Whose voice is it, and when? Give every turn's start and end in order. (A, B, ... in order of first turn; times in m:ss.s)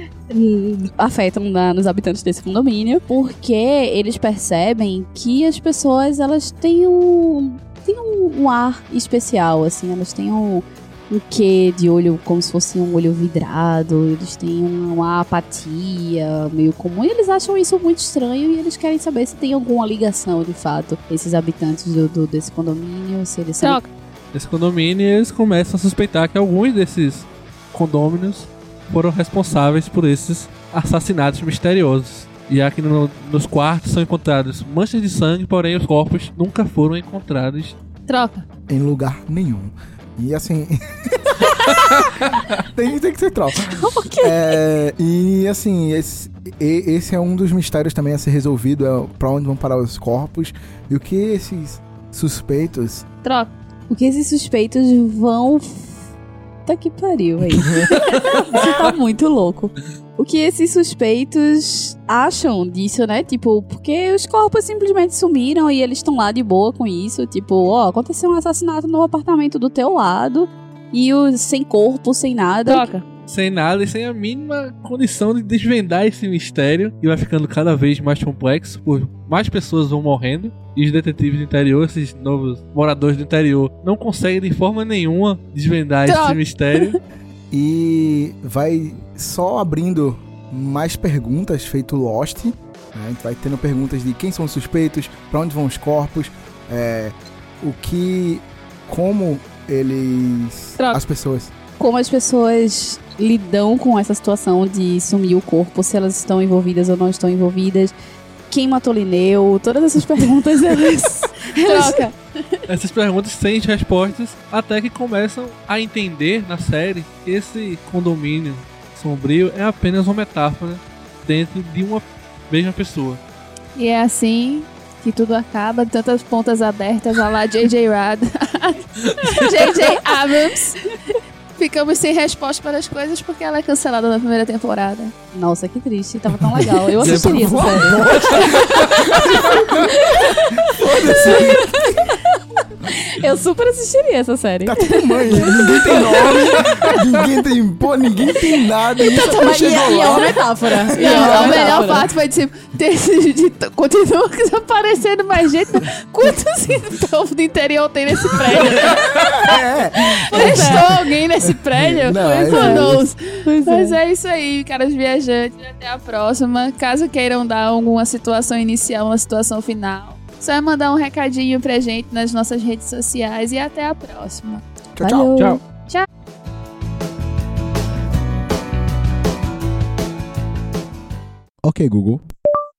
0:00.3-0:23.8 A
0:23.6-0:23.9 B
0:24.3-0:37.8 C
0:38.1-0:38.5 B
0:38.7-0:53.0 D
0:43.7-0:44.6 A
0:53.2-0:53.5 B
0:53.9-0:56.0 A
0:56.6-1:12.9 A
1:12.7-1:13.0 B
1:13.3-1:27.0 C
1:26.0-1:26.9 B
1:27.5-1:41.5 D
1:41.8-1:48.0 A
1:48.5-1:52.1 A
1:51.5-1:52.2 B
1:52.7-2:03.2 C
2:03.8-2:10.8 B
2:09.2-2:09.7 C
2:11.6-2:15.1 B
2:15.3-2:22.1 A
2:16.5-2:18.2 C
2:17.0-2:20.1 D
2:20.7-2:22.0 D
2:23.0-2:26.4 A
2:24.6-2:30.3 D
2:29.0-2:54.6 B
2:29.1-2:32.1 A
2:30.9-2:31.8 D
2:38.8-2:40.9 D
2:40.3-2:40.8 A
2:41.6-2:43.0 D
2:42.2-2:44.0 A
2:55.0-2:55.4 D
2:55.0-2:55.6 A
2:55.8-2:56.1 B
3:01.6-3:02.2 D